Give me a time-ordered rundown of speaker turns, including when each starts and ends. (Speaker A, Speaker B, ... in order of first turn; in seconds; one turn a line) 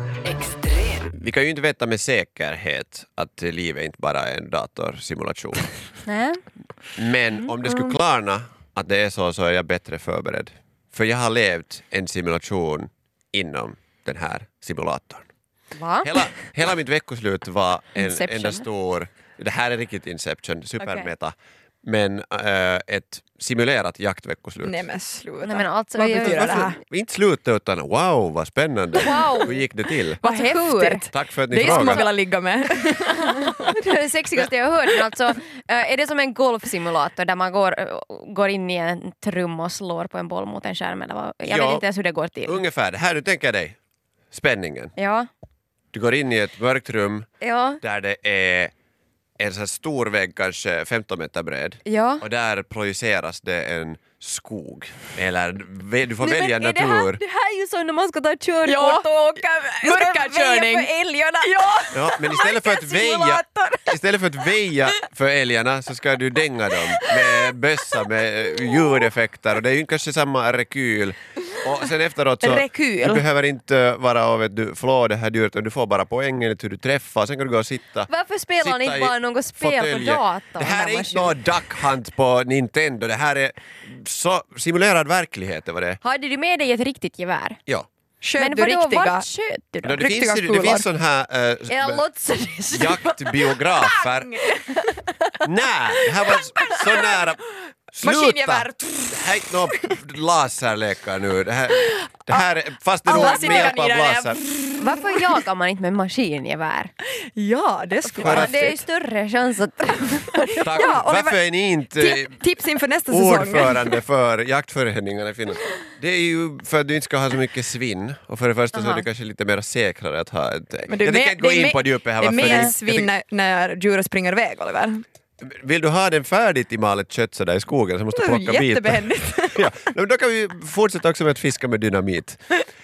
Speaker A: 1.1-5.7
Speaker B: 6.1-6.4
Speaker A: 7.0-15.3
Speaker B: 7.6-7.9
Speaker B: 15.8-16.2
Speaker A: 16.0-24.8
Speaker B: 17.9-18.7
Speaker B: 20.8-21.1
Speaker C: 24.6-26.8
Speaker B: 25.4-26.7
Speaker A: 26.2-30.2
Speaker B: 29.0-29.6
Speaker B: 30.2-31.0
Speaker C: 30.2-33.5
Speaker A: 31.1-32.1
Speaker B: 31.6-32.1
Speaker B: 33.2-42.6
Speaker A: 41.5-41.9
Speaker A: 42.4-43.8
Speaker A: 44.3-44.9
Speaker B: 45.0-45.3
Speaker A: 45.9-47.3
Speaker B: 47.4-47.8
Speaker A: 47.8-48.7
Speaker A: 49.4-57.2
Speaker B: 51.9-52.2
Speaker B: 56.2-64.0
Speaker C: 58.6-60.9
Speaker C: 61.4-62.2
Speaker A: 61.9-86.0
Speaker B: 67.0-67.5
Speaker C: 72.4-73.2
Speaker B: 78.1-81.4
Speaker B: 86.0-87.6
Speaker C: 88.2-89.3
Speaker B: 88.4-90.0
Speaker A: 89.8-92.0
Speaker C: 90.0-90.9
Speaker B: 91.7-93.8
Speaker A: 92.7-94.4
Speaker C: 93.9-94.9
Speaker B: 94.4-94.8
Speaker A: 95.4-104.4
Speaker B: 96.1-97.1
Speaker C: 96.7-97.0
Speaker C: 98.0-99.9
Speaker C: 103.0-105.2
Speaker B: 103.1-103.7
Speaker B: 104.8-106.9
Speaker C: 107.3-108.7
Speaker B: 108.1-110.9
Speaker A: 108.2-108.8
Speaker C: 110.4-113.9
Speaker A: 110.6-112.4
Speaker A: 113.1-123.1
Speaker B: 118.8-119.0
Speaker C: 120.9-125.0
Speaker B: 122.3-122.7
Speaker A: 125.4-132.6
Speaker C: 128.2-129.7